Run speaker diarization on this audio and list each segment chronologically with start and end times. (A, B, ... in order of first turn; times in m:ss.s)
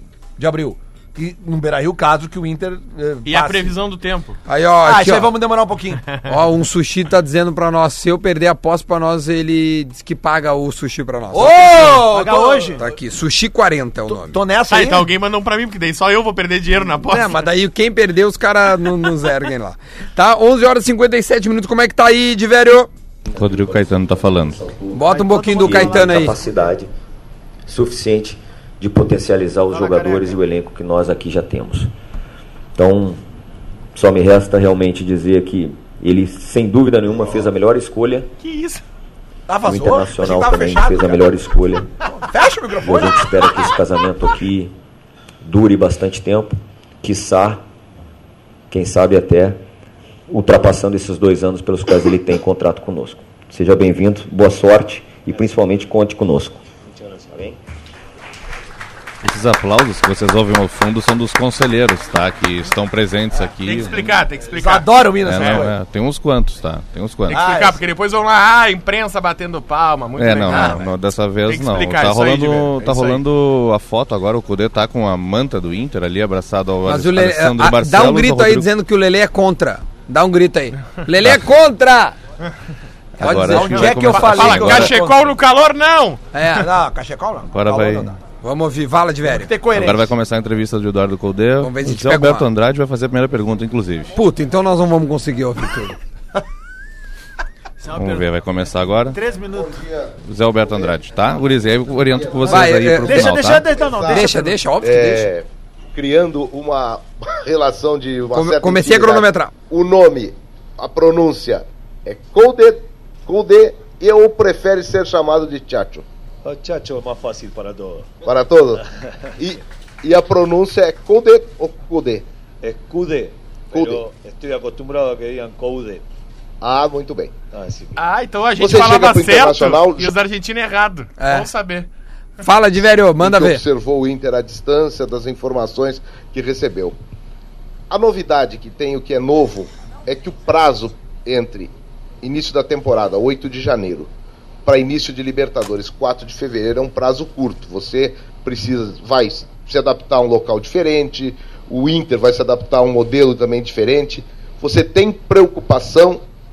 0:00.4-0:03.8 A
0:03.2-0:04.4 B
0:04.5-0:05.4 C
0:04.8-0:06.0 A
0:06.2-0:12.2 C
0:11.3-0:12.8 A
0:12.0-0:12.8 D
0:12.8-0:14.4 C
0:14.1-0:15.1 A
0:14.7-0:17.4 B
0:17.0-0:22.9 C
0:23.3-0:26.9 E
0:23.3-0:24.6 F
0:24.9-0:26.4 C
0:25.0-0:26.7 D
0:27.7-0:31.9 E
0:29.7-0:30.4 D
0:32.7-0:33.2 E
0:33.9-0:38.3 E
0:38.4-0:38.8 B
0:39.5-0:41.5 A
0:39.6-0:41.9 E
0:42.0-0:43.5 A
0:42.8-0:44.7 E
0:45.4-0:47.6 E
0:48.7-0:49.6 E
0:50.3-0:56.6 E
0:56.8-0:57.5 G
0:59.2-1:04.0 F
1:03.6-1:05.7 B
1:04.5-1:05.7 A
1:05.2-1:07.4 F
1:07.3-1:10.9 B
1:07.3-1:07.8 A
1:10.2-1:18.7 F
1:11.4-1:13.1 B
1:12.8-1:13.2 A
1:16.8-1:22.2 C
1:23.2-1:24.9 F
1:23.2-1:24.0 C
1:23.2-1:25.3 A
1:23.8-1:26.3 B
1:26.3-1:26.7 C
1:26.6-1:28.2 A
1:27.5-1:28.1 F
1:28.4-1:29.5 C
1:29.2-1:30.1 A
1:29.7-1:34.1 F
1:31.6-1:32.5 C
1:34.1-1:36.0 C
1:37.8-1:38.3 D
1:37.9-1:39.2 F
1:39.1-1:39.8 D
1:39.7-1:40.1 H
1:40.2-1:43.7 F
1:42.4-1:43.3 C
1:42.5-1:44.6 D
1:43.9-1:44.3 H
1:44.1-1:45.3 C
1:44.8-1:56.0 H
1:48.3-1:49.5 C
1:56.4-1:58.1 G
1:58.2-1:58.8 H
1:59.4-2:02.2 H
2:02.6-2:06.0 G
2:03.7-2:04.0 H
2:06.6-2:07.4 H
2:07.5-2:08.0 G
2:08.0-2:11.9 B
2:08.6-2:10.1 H
2:11.2-2:11.5 C
2:12.4-2:13.6 C
2:13.2-2:17.0 H
2:17.9-2:24.1 H
2:24.6-2:36.2 H